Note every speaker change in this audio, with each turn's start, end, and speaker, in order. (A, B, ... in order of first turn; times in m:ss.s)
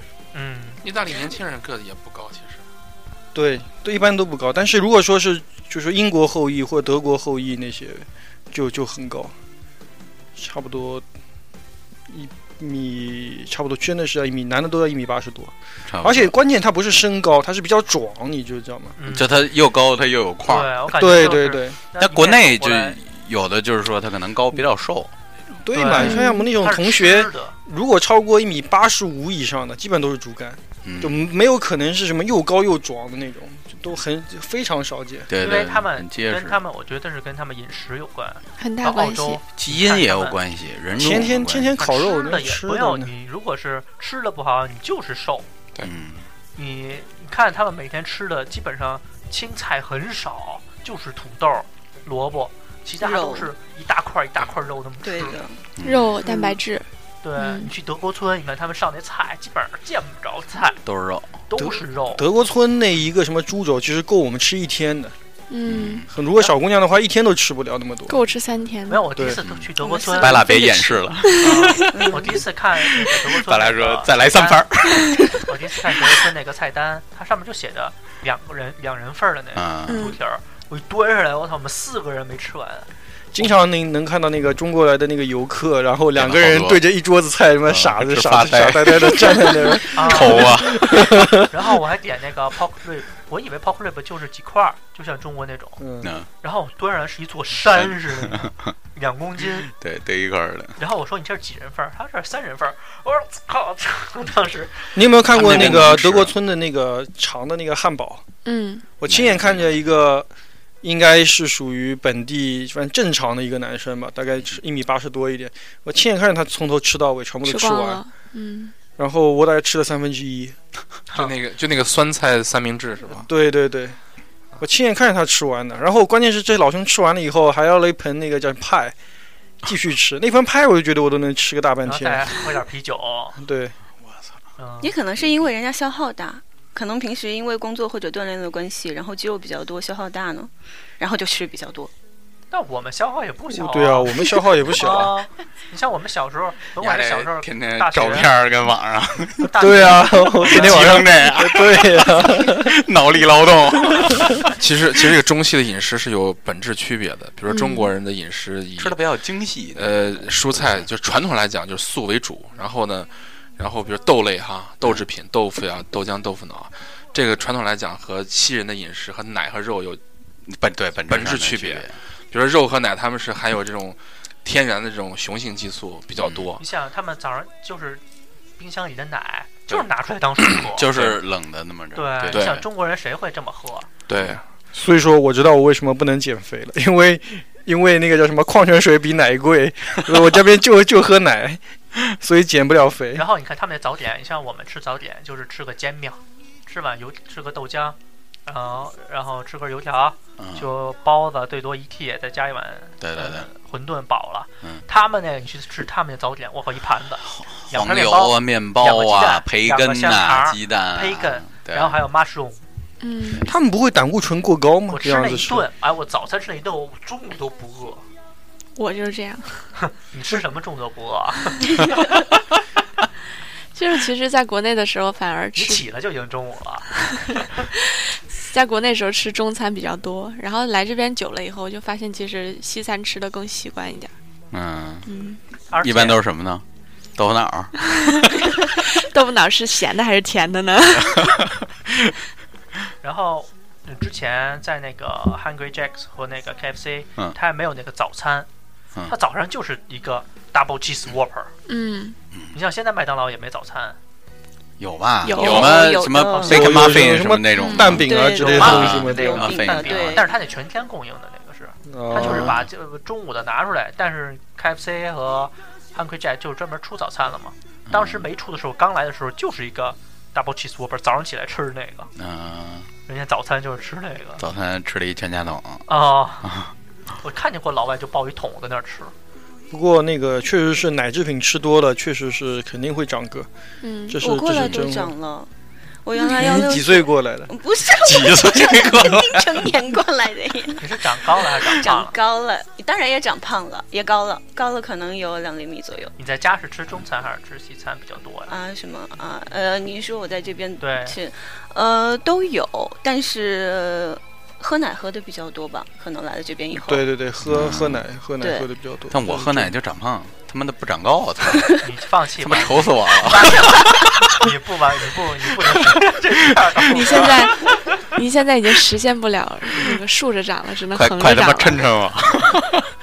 0:00.3-0:00.8 A
0:00.8-0:02.6 B
0:03.3-0:09.3 C
0:10.4-0:11.0 C
0:12.1-0:18.9 C
0:15.9-0:16.3 D
0:19.0-0:19.3 A
0:19.0-0:21.4 D
0:20.4-0:23.0 A
0:20.9-0:21.8 C
0:22.0-0:25.1 D
0:25.6-0:35.3 C
0:25.7-0:27.6 A
0:26.0-0:26.5 E
0:30.8-0:31.3 D
0:35.3-0:36.6 D
0:35.4-0:40.4 A
0:38.6-0:39.4 E
0:39.6-0:41.8 D
0:41.0-0:43.1 C
0:41.7-0:45.5 A
0:45.8-0:46.3 D
0:46.6-0:55.4 A
0:53.0-0:53.5 F
0:55.0-0:55.6 F
0:55.8-0:56.2 D
0:55.8-0:57.7 E
0:56.2-0:56.6 F
0:57.2-1:00.8 A
1:00.8-1:01.3 D
1:01.5-1:02.2 A
1:01.6-1:05.1 C
1:05.5-1:06.0 E
1:05.6-1:06.1 D
1:06.1-1:08.2 C
1:08.1-1:09.3 E
1:08.9-1:10.4 A
1:09.4-1:12.1 D
1:09.8-1:10.5 F
1:10.4-1:11.4 E
1:11.3-1:14.6 A
1:11.9-1:12.4 F
1:13.1-1:15.2 D
1:15.4-1:22.9 A
1:19.5-1:20.1 D
1:19.9-1:20.2 E
1:23.3-1:31.4 C
1:26.2-1:26.8 D
1:27.7-1:31.1 D
1:29.9-1:30.5 A
1:31.4-1:35.8 A
1:35.8-1:36.1 C
1:36.0-1:36.3 D
1:36.4-1:39.7 A
1:37.7-1:38.7 D
1:39.6-1:40.8 D
1:40.8-1:44.9 A
1:44.9-1:48.2 C
1:45.3-1:46.3 B
1:45.4-1:46.1 D
1:48.4-1:48.9 E
1:49.0-1:50.3 C
1:49.1-1:49.7 D
1:50.8-1:58.0 C
1:57.4-1:58.7 E
1:59.0-2:00.6 C
2:01.1-2:03.3 B
2:03.2-2:04.0 C
2:04.6-2:08.9 C
2:09.6-2:12.5 C
2:11.8-2:13.4 A
2:13.4-2:13.7 C
2:14.6-2:14.9 A
2:14.8-2:21.9 F
2:22.5-2:28.3 A
2:23.5-2:25.1 C
2:26.8-2:29.5 D
2:29.4-2:31.0 A
2:29.6-2:32.7 C
2:30.5-2:34.5 D
2:34.6-2:39.0 B
2:37.5-2:37.9 E
2:38.8-2:40.9 D
2:39.8-2:50.0 B
2:50.5-2:51.9 D
2:51.1-2:56.6 B
2:56.2-2:56.5 D
2:56.6-2:58.0 A
2:58.6-3:00.9 A
3:00.7-3:02.6 D
3:00.9-3:01.2 B
3:01.9-3:03.9 A
3:02.3-3:02.6 B
3:04.1-3:04.4 B
3:04.7-3:13.2 C
3:13.1-3:32.6 A
3:20.4-3:20.7 D
3:23.0-3:23.5 D
3:27.3-3:32.0 D
3:33.0-3:33.5 E
3:33.5-3:35.6 C
3:34.9-3:38.0 A
3:38.8-3:39.6 E
3:39.8-3:42.0 A
3:43.7-3:45.8 E
3:45.5-3:47.6 A
3:47.8-3:54.1 E
3:54.5-3:55.1 D
3:55.0-3:55.4 E
3:55.7-3:56.2 A
3:55.8-3:56.6 D
3:57.2-3:57.7 D
3:57.8-4:01.5 E
4:03.0-4:08.5 A
4:09.1-4:11.5 A
4:11.7-4:12.2 E
4:12.5-4:14.0 A
4:14.8-4:20.2 D
4:15.2-4:15.7 E
4:15.3-4:16.7 F
4:15.4-4:15.7 B
4:16.3-4:16.6 A
4:16.4-4:19.5 C
4:17.6-4:18.0 E
4:17.9-4:20.3 F
4:18.3-4:32.1 A
4:21.9-4:22.6 C
4:22.2-4:22.6 D
4:27.9-4:28.2 D
4:32.2-4:32.9 D
4:33.1-4:34.4 A
4:34.4-4:35.8 D
4:35.9-4:36.5 A
4:36.4-4:36.7 D
4:37.2-4:39.1 A
4:39.7-4:43.5 C
4:43.8-4:44.2 E
4:44.1-4:45.1 C
4:44.2-4:45.5 F
4:46.0-4:51.0 F
4:46.3-4:47.5 C
4:48.0-4:49.6 D
4:50.8-4:52.2 A
4:51.6-4:56.1 F
4:56.2-4:58.5 A
4:58.5-5:07.1 F
5:00.8-5:01.2 A
5:06.7-5:09.7 C
5:07.4-5:08.0 D
5:08.4-5:08.7 F
5:09.1-5:11.7 D
5:11.8-5:17.8 A
5:12.4-5:14.4 D
5:16.8-5:21.8 E
5:20.9-5:22.9 D